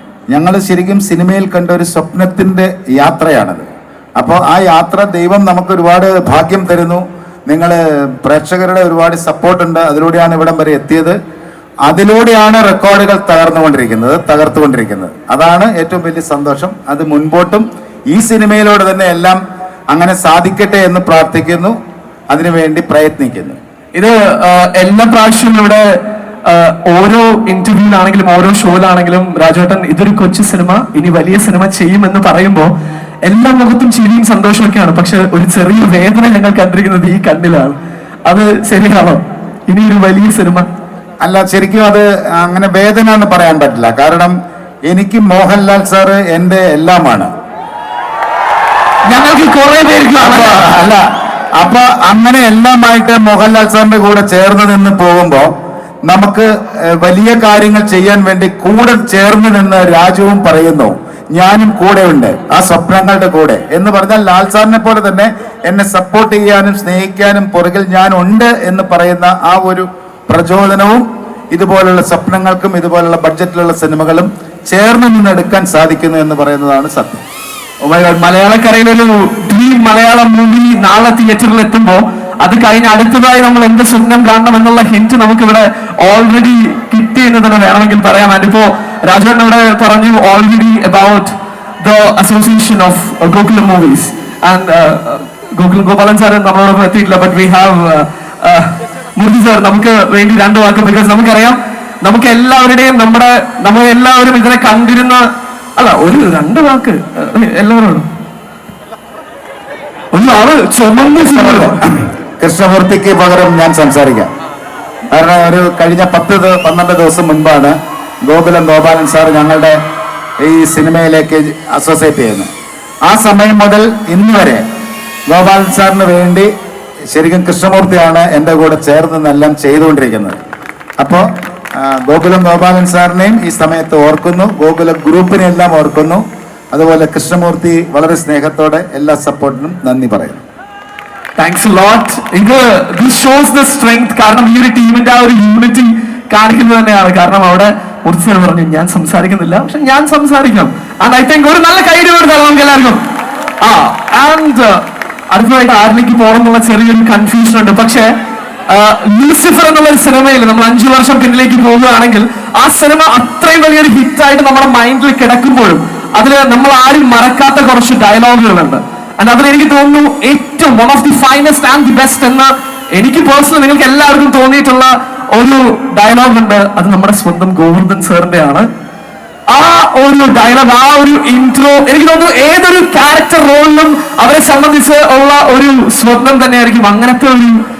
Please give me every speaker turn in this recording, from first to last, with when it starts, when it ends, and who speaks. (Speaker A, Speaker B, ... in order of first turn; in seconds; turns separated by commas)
Speaker A: 0.3-11.2, Speaker A: 11.8-21.8, Speaker A: 22.3-23.6, Speaker B: 23.9-25.9, Speaker B: 26.4-32.7, Speaker B: 33.2-40.7, Speaker A: 41.2-44.3, Speaker A: 44.9-47.3, Speaker B: 49.1-50.7, Speaker A: 50.2-51.0, Speaker A: 51.6-55.5, Speaker A: 56.1-77.2, Speaker B: 77.8-105.2, Speaker B: 105.8-108.1, Speaker B: 110.1-111.8, Speaker A: 111.3-114.3, Speaker A: 115.1-119.8, Speaker A: 120.4-122.5, Speaker A: 123.0-124.7, Speaker A: 125.3-126.5, Speaker A: 127.1-130.4, Speaker A: 131.0-140.4, Speaker B: 141.4-153.0, Speaker B: 153.6-158.1, Speaker B: 158.7-178.7, Speaker B: 179.5-187.6